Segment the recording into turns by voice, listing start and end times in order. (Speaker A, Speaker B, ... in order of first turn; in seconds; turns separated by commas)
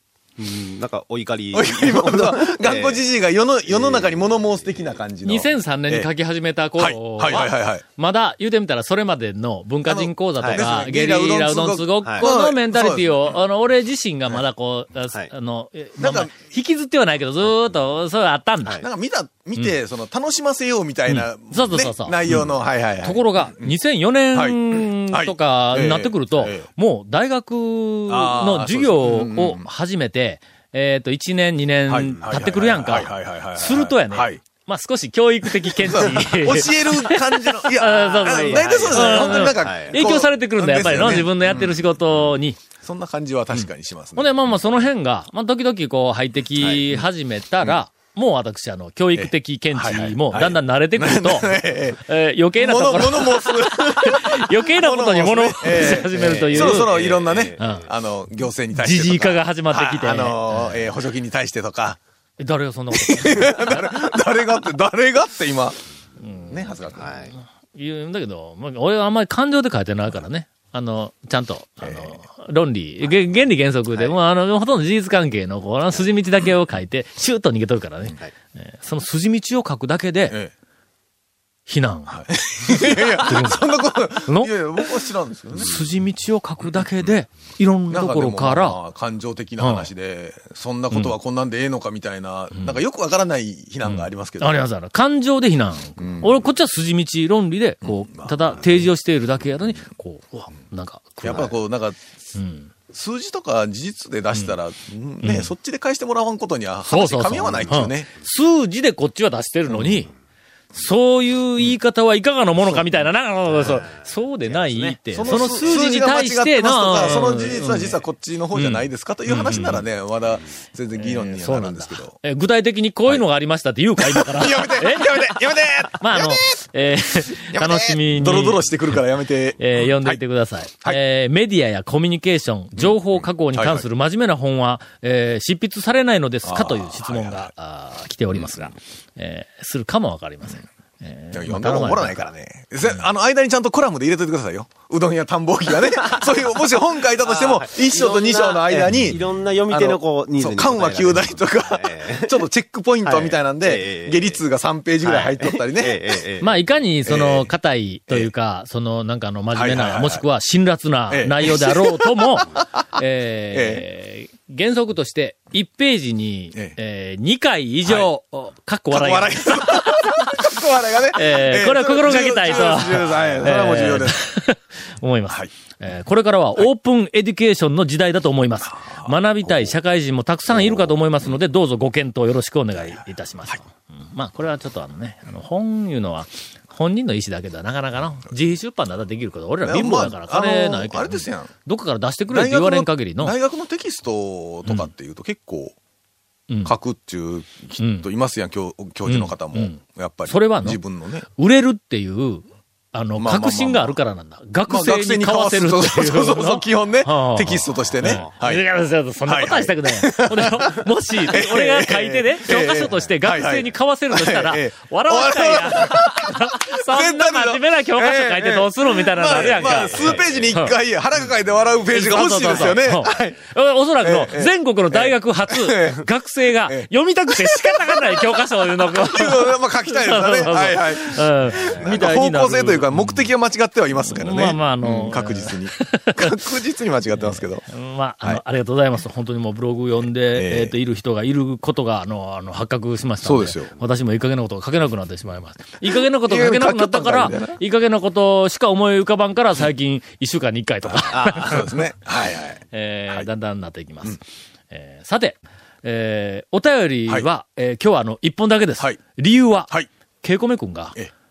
Speaker A: 0.4-3.1, Speaker B: 1.5-6.1, Speaker A: 3.7-5.0, Speaker C: 5.2-18.8, Speaker B: 6.8-7.8, Speaker B: 9.9-13.4, Speaker A: 10.4-10.7, Speaker B: 16.0-16.5, Speaker B: 18.8-23.8, Speaker C: 21.1-42.6, Speaker B: 24.3-26.7, Speaker B: 28.1-29.7, Speaker B: 31.9-34.4, Speaker B: 35.8-44.5, Speaker A: 37.8-40.0, Speaker C: 43.5-57.9, Speaker A: 46.6-47.0, Speaker B: 49.1-62.0, Speaker A: 55.8-57.8, Speaker C: 58.7-61.0, Speaker C: 62.4-63.9, Speaker B: 62.9-65.8, Speaker C: 66.2-80.4, Speaker B: 66.5-67.3, Speaker A: 67.0-67.3, Speaker B: 71.8-72.2, Speaker C: 81.7-84.9, Speaker B: 82.1-85.8, Speaker C: 85.5-88.8, Speaker B: 86.6-87.1, Speaker B: 87.9-94.6, Speaker C: 89.6-89.9, Speaker C: 92.5-92.8, Speaker C: 93.8-101.5, Speaker B: 96.0-96.5, Speaker B: 97.8-98.9, Speaker B: 101.2-102.0, Speaker C: 102.3-102.7, Speaker B: 102.9-108.1, Speaker C: 105.2-105.5, Speaker C: 106.9-110.1, Speaker B: 109.7-110.0, Speaker C: 110.7-118.0, Speaker A: 113.5-115.9, Speaker B: 115.2-122.2, Speaker C: 118.5-119.9, Speaker C: 121.0-129.0, Speaker B: 124.0-126.6, Speaker B: 127.3-130.2, Speaker C: 129.6-142.3, Speaker B: 132.8-133.8, Speaker B: 136.4-137.5, Speaker B: 138.3-138.7, Speaker B: 141.3-156.2, Speaker A: 147.2-152.4, Speaker A: 153.0-154.4, Speaker A: 155.0-156.5, Speaker C: 156.4-170.4, Speaker B: 157.1-157.5, Speaker B: 159.5-160.2, Speaker B: 161.1-162.7, Speaker B: 163.5-163.8, Speaker B: 167.8-168.1, Speaker B: 168.9-174.2, Speaker C: 171.1-193.3, Speaker B: 178.7-179.7, Speaker B: 180.5-181.4, Speaker B: 189.6-191.5, Speaker B: 192.3-195.8, Speaker C: 194.7-194.9, Speaker B: 196.7-201.3, Speaker C: 197.8-198.1, Speaker C: 199.1-200.8, Speaker C: 201.4-220.8, Speaker B: 203.2-204.0, Speaker B: 204.7-208.7, Speaker A: 207.9-208.3, Speaker B: 209.3-223.4, Speaker A: 219.3-220.5, Speaker C: 221.9-233.3, Speaker A: 222.3-222.7, Speaker B: 224.0-226.1, Speaker B: 226.7-237.7, Speaker A: 231.7-232.0, Speaker C: 233.9-236.3, Speaker C: 237.1-251.9, Speaker B: 240.3-240.7, Speaker B: 243.2-243.7, Speaker B: 245.8-247.6, Speaker B: 250.9-253.3, Speaker A: 251.1-251.6, Speaker C: 252.7-254.2, Speaker C: 254.7-261.0